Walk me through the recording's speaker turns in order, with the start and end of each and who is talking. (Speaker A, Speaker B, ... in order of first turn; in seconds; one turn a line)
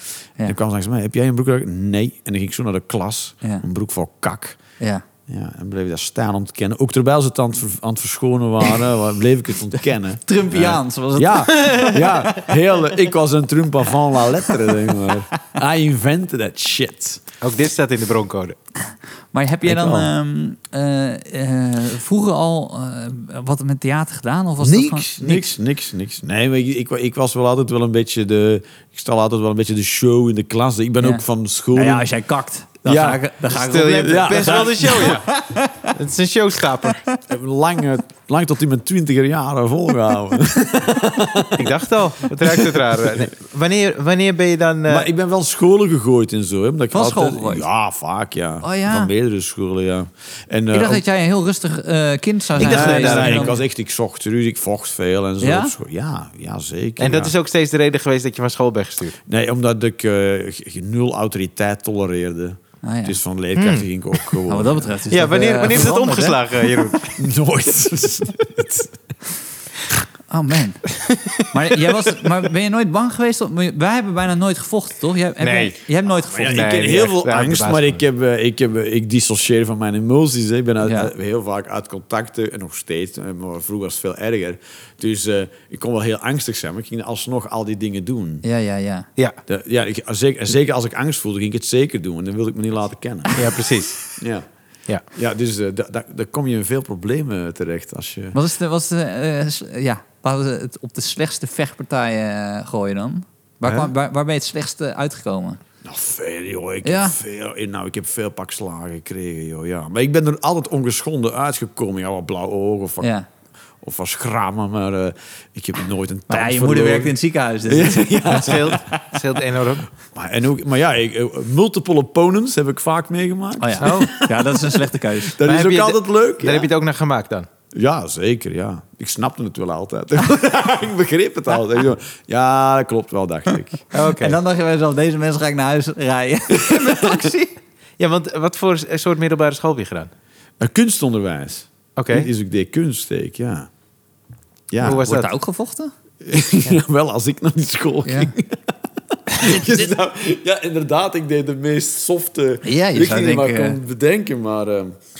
Speaker A: 0.4-4.6
Speaker A: 5.3-17.2
Speaker B: 10.2-12.5
Speaker B: 14.4-15.1
Speaker C: 17.4-18.6
Speaker B: 18.8-25.5
Speaker A: 19.6-20.1
Speaker A: 24.6-32.1
Speaker B: 31.0-35.9
Speaker A: 32.8-33.2
Speaker C: 33.5-35.3
Speaker A: 34.0-35.2
Speaker C: 35.9-37.0
Speaker A: 37.3-41.8
Speaker C: 41.6-45.1
Speaker A: 42.4-43.3
Speaker A: 44.9-51.0
Speaker B: 46.9-47.6
Speaker B: 48.6-49.1
Speaker B: 50.7-53.5
Speaker A: 52.5-57.3
Speaker C: 52.6-53.6
Speaker B: 55.4-55.7
Speaker C: 57.0-59.2
Speaker A: 59.3-65.0
Speaker B: 62.8-63.2
Speaker C: 63.5-63.9
Speaker B: 64.5-66.4
Speaker C: 65.1-67.1
Speaker A: 67.2-69.0
Speaker B: 70.3-76.7
Speaker C: 71.0-71.5
Speaker C: 75.4-75.8
Speaker A: 76.3-88.4
Speaker C: 76.4-78.0
Speaker B: 80.8-81.1
Speaker B: 88.4-89.1
Speaker A: 89.5-93.4
Speaker C: 93.3-94.0
Speaker A: 94.2-94.5
Speaker A: 95.1-98.3
Speaker B: 98.3-105.6
Speaker A: 103.6-103.9
Speaker A: 105.8-113.1
Speaker B: 106.8-107.2
Speaker B: 113.0-113.2
Speaker A: 113.8-117.1
Speaker B: 116.3-119.0
Speaker A: 117.7-118.8
Speaker C: 118.3-119.9
Speaker A: 120.1-126.7
Speaker B: 123.6-125.4
Speaker C: 123.8-124.2
Speaker C: 125.4-127.5
Speaker A: 127.7-133.8
Speaker C: 133.9-134.4
Speaker B: 134.0-137.6
Speaker A: 136.7-137.2
Speaker C: 138.0-140.1
Speaker A: 140.6-143.7
Speaker C: 142.0-142.3
Speaker A: 144.7-145.2
Speaker C: 144.8-145.3
Speaker B: 144.8-145.9
Speaker A: 146.2-155.0
Speaker B: 148.0-148.3
Speaker B: 149.4-149.8
Speaker B: 152.6-153.8